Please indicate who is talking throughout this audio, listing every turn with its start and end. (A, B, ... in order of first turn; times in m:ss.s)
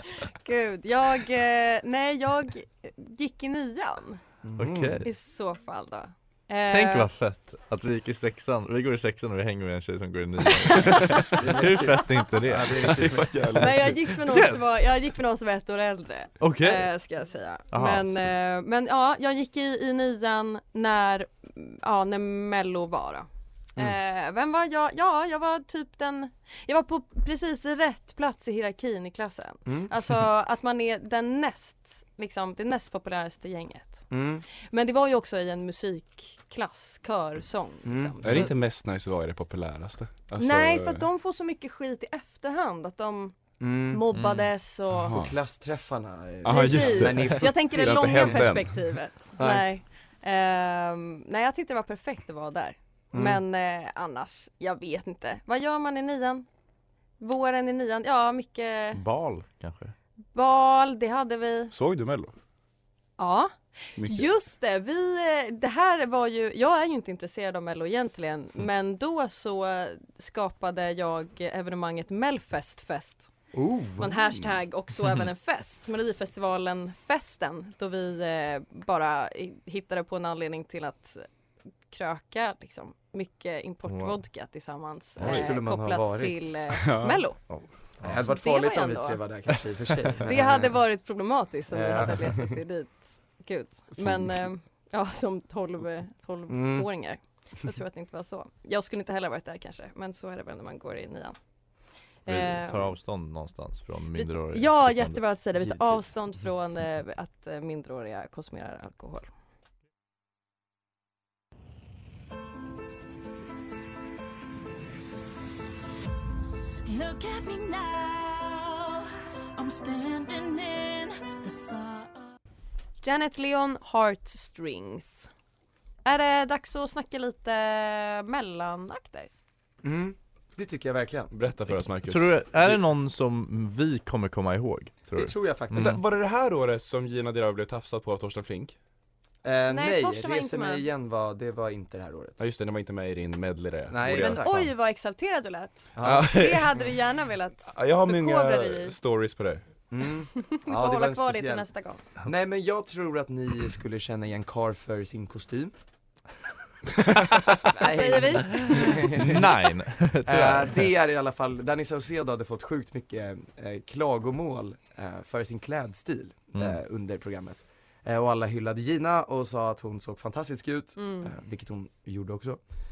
0:00.2-0:04.2 A
0:04.4-0:05.1 B
0:04.6-0:05.0 C
0:05.0-0:07.1 A
0:06.6-0:13.1 C
0:10.7-0:11.2 A
0:11.3-0:13.7 B
0:12.6-0:14.2 D
0:13.5-0:38.5 A
0:14.3-0:14.7 C
0:16.4-0:16.9 C
0:17.7-0:18.1 C
0:29.6-0:29.9 B
0:34.1-0:34.4 B
0:37.8-0:38.4 B
0:38.2-0:41.0 D
0:40.4-0:43.4 A
0:43.6-0:44.0 B
0:43.9-0:45.1 A
0:44.1-0:44.5 C
0:45.0-0:45.4 D
0:45.0-0:48.4 B
0:46.4-0:48.9 D
0:46.5-0:56.4 A
0:49.4-0:49.6 B
0:53.1-0:53.4 B
0:57.2-0:59.0 A
0:58.9-0:59.9 C
1:00.3-1:01.7 A
1:01.7-1:02.3 D
1:03.2-1:13.3 A
1:04.0-1:04.3 D
1:13.6-1:14.1 B
1:14.0-1:21.2 A
1:21.9-1:27.4 A
1:23.9-1:24.2 C
1:25.2-1:26.6 B
1:26.8-1:27.2 D
1:27.5-1:28.2 C
1:28.0-1:30.7 B
1:28.0-1:29.2 A
1:30.2-1:41.4 A
1:31.7-1:32.5 B
1:34.0-1:34.4 B
1:36.5-1:36.9 B
1:42.2-1:42.9 A
1:42.3-1:45.3 C
1:44.2-1:49.3 A
1:56.8-1:59.0 E
1:59.6-2:02.3 E
2:03.0-2:05.3 A
2:06.0-2:09.3 A
2:09.8-2:11.3 B
2:11.3-2:12.8 D
2:12.0-2:16.0 C
2:15.1-2:16.0 B
2:15.7-2:18.8 D
2:19.4-2:22.4 B
2:19.7-2:20.8 A
2:22.4-2:24.7 D
2:23.9-2:24.5 B
2:24.2-2:29.0 A
2:26.0-2:26.3 B
2:26.0-2:26.9 D
2:27.7-2:29.6 D
2:29.9-2:31.7 B
2:30.4-2:32.0 A
2:32.2-2:35.7 B
2:37.6-2:39.5 B
2:37.7-2:39.1 A
2:38.8-2:40.9 C
2:40.2-2:52.6 B
2:51.0-2:51.3 A